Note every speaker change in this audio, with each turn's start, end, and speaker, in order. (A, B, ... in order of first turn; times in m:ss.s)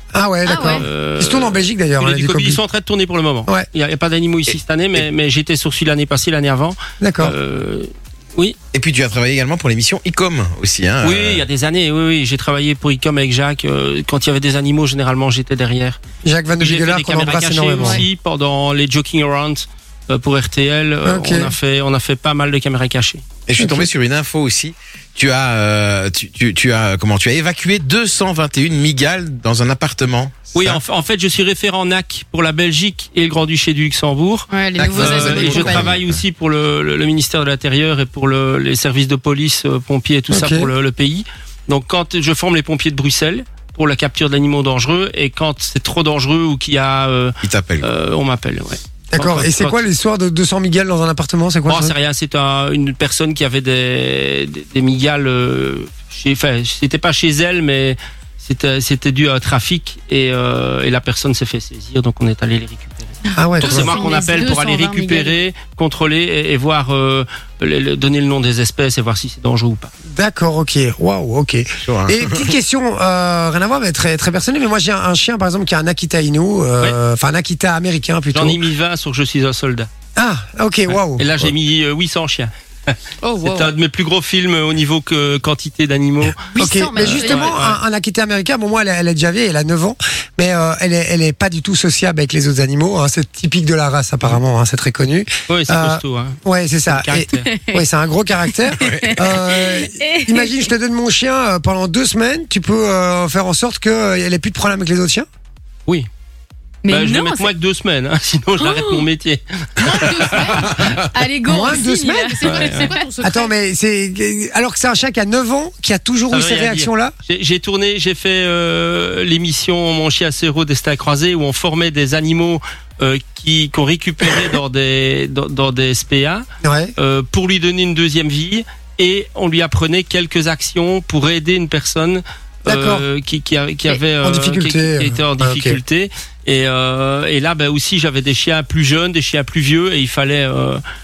0:00.1-0:02.6 A
0:00.4-0:00.8 B
0:00.6-0:08.6 C
0:04.5-0:05.0 D
0:07.0-0:07.3 A
0:08.7-0:11.4 D
0:11.0-0:16.0 C
0:16.2-0:18.0 A
0:16.6-0:23.2 C
0:21.0-0:21.5 A
0:23.5-0:30.8 D
0:23.6-0:23.9 A
0:30.5-0:49.8 C
0:34.5-0:35.8 B
0:34.8-0:36.2 D
0:40.3-0:40.7 A
0:47.4-0:47.9 D
0:49.1-0:51.9 A
0:51.7-1:09.9 C
1:03.3-1:04.2 A
1:03.6-1:05.4 B
1:10.1-1:18.6 A
1:11.8-1:12.5 D
1:18.3-1:19.9 C
1:20.2-1:21.2 A
1:20.9-1:27.8 C
1:23.2-1:23.7 E
1:26.5-1:27.5 B
1:26.6-1:45.3 A
1:35.5-1:37.5 C
1:37.3-1:37.8 B
1:38.7-1:40.7 B
1:38.8-1:39.2 D
1:46.8-1:47.5 B
1:46.9-1:51.0 C
1:48.6-1:49.0 B
1:49.8-1:50.9 E
1:50.9-1:53.1 B
1:51.5-1:52.6 A
1:52.3-1:53.5 E
1:52.4-1:52.9 C
1:53.2-1:57.1 A
1:56.3-2:06.4 C
2:06.6-2:06.9 A
2:07.0-2:20.8 C
2:12.7-2:13.0 A
2:13.9-2:15.8 A